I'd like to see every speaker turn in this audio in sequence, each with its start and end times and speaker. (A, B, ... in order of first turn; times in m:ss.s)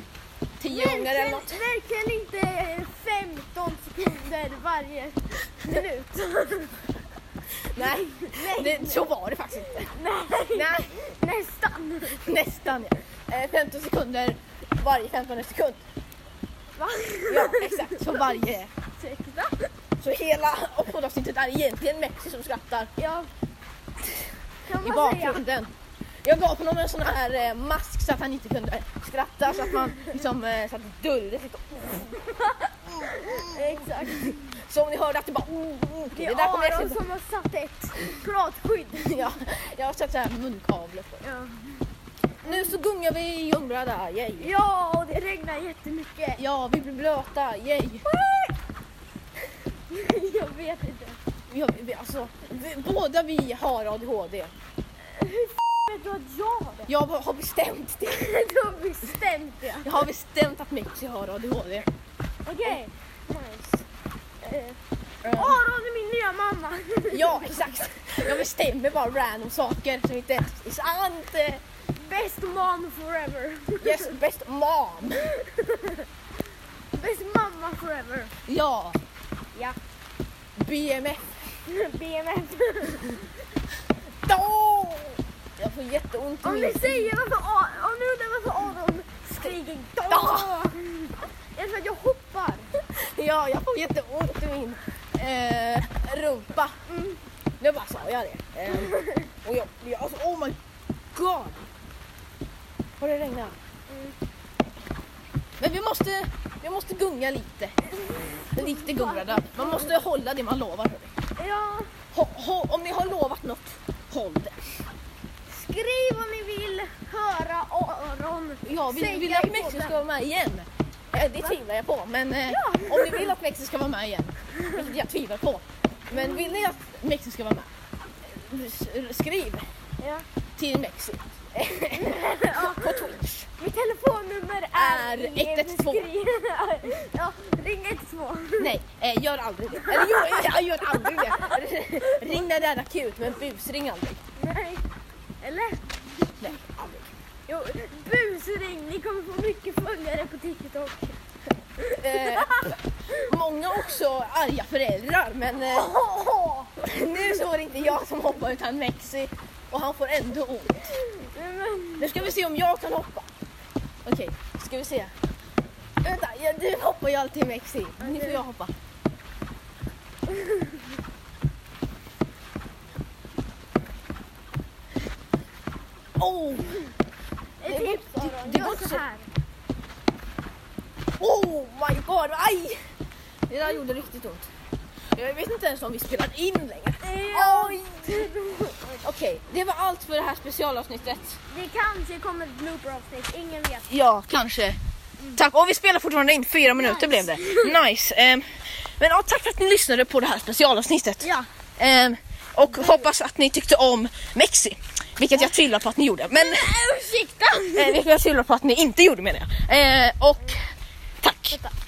0:00.6-0:01.6 A
0:00.7-0:06.8 B
0:07.6-0:09.9 A
0:07.8-0:09.0 B
0:09.9-0:12.3 B
0:10.5-0:10.9 A
0:12.1-0:15.8 A
0:16.8-0:18.2 B
0:17.3-0:18.7 A
0:19.0-0:19.7 B
0:20.0-0:22.9 A
0:23.0-0:23.3 B
0:24.7-0:25.4 B
0:24.8-0:25.7 A
0:26.2-0:32.2 A
0:32.2-0:34.6 B
0:32.9-0:37.0 A
0:36.1-0:39.3 B
0:39.0-0:41.2 A
0:41.2-0:41.8 B
0:42.4-0:42.7 B
0:42.4-0:44.5 A
0:44.4-0:46.4 B
0:46.4-0:48.0 A
0:48.0-0:48.6 B
0:49.5-0:51.2 B
0:51.5-0:54.5 A
0:55.0-0:56.9 B
0:56.8-0:58.3 A
0:58.1-1:00.1 B
0:59.8-1:01.9 A
1:02.4-1:03.8 B
1:04.4-1:04.8 B
1:05.2-1:05.6 A
1:05.3-1:07.8 B
1:07.1-1:11.6 A
1:11.9-1:14.2 B
1:13.8-1:15.3 A
1:15.2-1:16.1 B
1:16.9-1:18.3 B
1:18.5-1:19.0 A
1:19.5-1:19.8 B
1:20.6-1:21.3 A
1:21.6-1:23.3 B
1:24.2-1:27.1 A
1:26.4-1:32.7 B
1:30.1-1:30.6 A
1:32.9-1:36.8 A
1:36.9-1:37.2 B
1:37.6-1:40.6 A
1:38.7-1:39.3 B
1:41.1-1:41.7 A
1:43.0-1:43.6 A
1:43.9-1:44.2 B
1:45.6-1:51.1 A
1:48.2-1:49.9 B
1:51.4-1:51.9 B
1:52.1-1:54.9 A
1:55.5-2:00.0 B
1:58.6-2:07.7 A
2:02.5-2:03.3 B
2:04.6-2:04.8 B
2:06.1-2:06.7 B
2:08.2-2:09.6 A
2:10.0-2:10.2 B
2:10.6-2:13.5 A
2:11.9-2:18.7 B
2:14.7-2:16.1 A
2:18.6-2:24.2 A
2:19.8-2:22.4 B
2:24.4-2:24.8 B
2:25.4-2:26.5 B
2:26.4-2:27.1 A
2:27.5-2:31.2 B
2:31.8-2:33.3 B
2:31.8-2:35.9 A
2:35.7-2:36.7 B
2:36.8-2:40.9 A
2:41.0-2:42.2 B
2:42.0-2:43.3 A
2:44.0-2:45.1 A
2:46.0-2:48.7 A
2:48.0-2:48.4 B
2:50.3-2:50.8 B
2:56.2-2:56.9 A
2:57.6-2:59.3 B
2:57.6-2:59.0 A
3:01.2-3:02.8 A
3:03.5-3:04.5 A
3:05.1-3:08.3 A
3:07.0-3:09.0 B
3:09.0-3:11.4 A
3:11.5-3:13.9 B
3:13.9-3:14.8 A
3:15.3-3:18.4 A
3:16.7-3:17.8 B
3:19.0-3:26.8 A
3:21.2-3:21.5 B
3:26.3-3:28.0 B
3:27.7-3:30.7 A
3:31.2-3:31.6 A